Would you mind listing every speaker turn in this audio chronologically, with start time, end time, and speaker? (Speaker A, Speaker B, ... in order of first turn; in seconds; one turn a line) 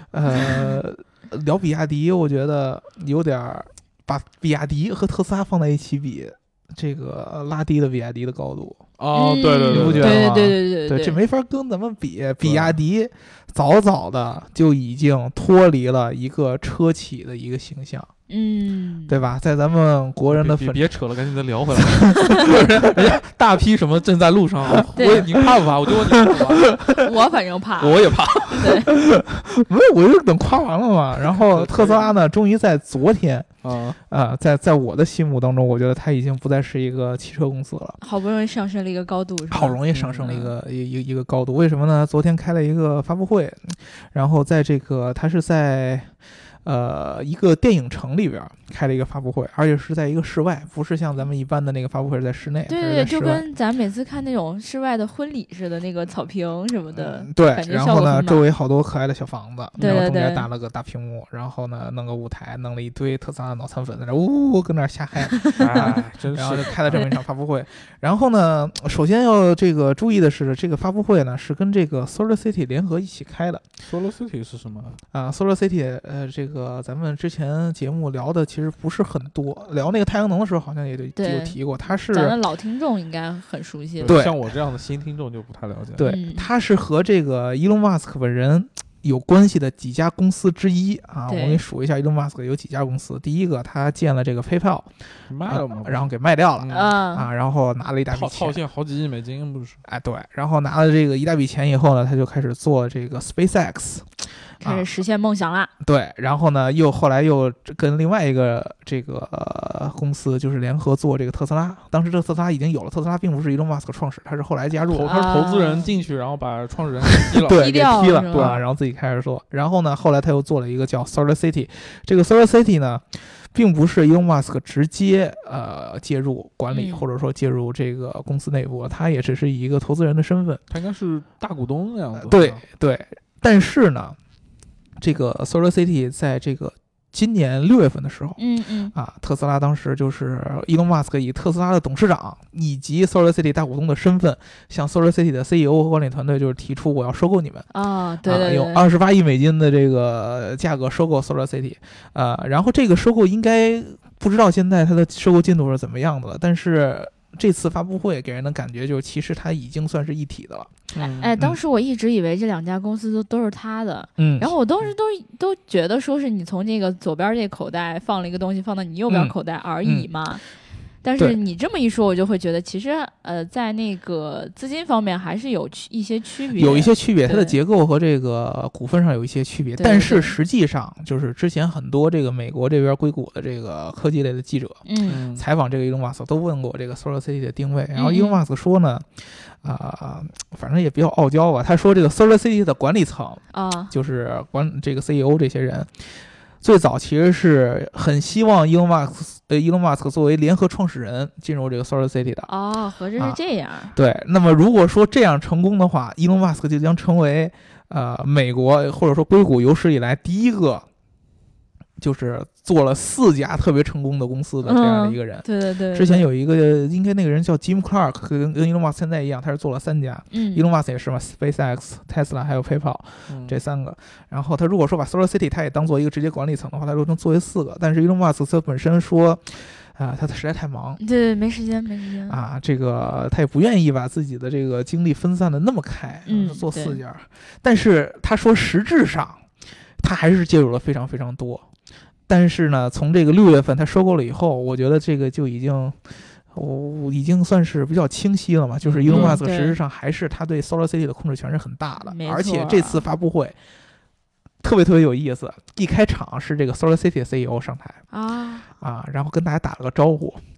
Speaker A: 0.1-8.8
Speaker B: 9.0-10.3
Speaker C: 9.1-11.2
Speaker A: 9.7-18.1
Speaker B: 12.4-12.8
Speaker C: 18.3-19.2
Speaker A: 19.1-20.8
Speaker B: 20.3-26.9
Speaker A: 21.8-23.1
Speaker C: 22.2-22.4
Speaker A: 24.8-25.5
Speaker C: 25.0-25.3
Speaker A: 26.0-27.1
Speaker C: 27.0-28.9
Speaker B: 27.8-28.8
Speaker A: 28.9-33.5
Speaker B: 31.3-32.1
Speaker B: 33.6-34.0
Speaker A: 34.1-38.0
Speaker C: 38.0-40.5
Speaker A: 39.5-46.1
Speaker B: 39.9-40.4
Speaker A: 46.6-53.4
Speaker C: 52.7-58.5
Speaker A: 57.0-73.6
Speaker C: 59.8-60.5
Speaker B: 65.6-67.1
Speaker B: 73.9-75.0
Speaker A: 75.1-82.4
Speaker C: 81.2-84.2
Speaker B: 84.0-86.1
Speaker A: 84.1-84.4
Speaker A: 86.0-94.9
Speaker C: 86.0-86.5
Speaker C: 91.3-91.6
Speaker B: 95.3-96.1
Speaker A: 95.5-98.6
Speaker B: 96.6-96.9
Speaker C: 96.7-97.3
Speaker B: 98.1-99.8
Speaker A: 99.9-104.9
Speaker C: 104.6-105.7
Speaker A: 105.8-115.2
Speaker B: 114.9-117.7
Speaker C: 115.0-115.9
Speaker A: 117.4-130.6
Speaker C: 117.5-118.6
Speaker B: 118.3-118.6
Speaker C: 126.7-127.0
Speaker B: 130.7-132.6
Speaker A: 132.2-134.2
Speaker A: 135.0-138.4
Speaker C: 138.4-138.9
Speaker A: 138.9-147.7
Speaker C: 147.7-148.9
Speaker A: 148.2-160.7
Speaker B: 160.9-161.3
Speaker C: 161.0-170.4
Speaker A: 164.2-164.5
Speaker A: 169.1-170.1
Speaker C: 171.0-177.6
Speaker A: 176.6-202.5
Speaker C: 179.8-180.4
Speaker C: 184.9-185.2
Speaker B: 185.1-185.4
Speaker C: 187.9-188.4
Speaker C: 193.5-193.9
Speaker C: 202.5-203.9
Speaker A: 203.9-210.8
Speaker A: 212.0-231.0
Speaker C: 214.6-216.2
Speaker C: 220.3-220.7
Speaker B: 223.3-223.6
Speaker C: 231.0-232.4
Speaker A: 232.3-239.4
Speaker C: 236.3-237.0
Speaker A: 240.0-241.7
Speaker A: 242.3-253.6
Speaker B: 248.8-249.4
Speaker C: 249.1-249.8
Speaker C: 252.1-253.1
Speaker A: 254.6-258.0
Speaker C: 258.1-258.7
Speaker A: 258.8-260.4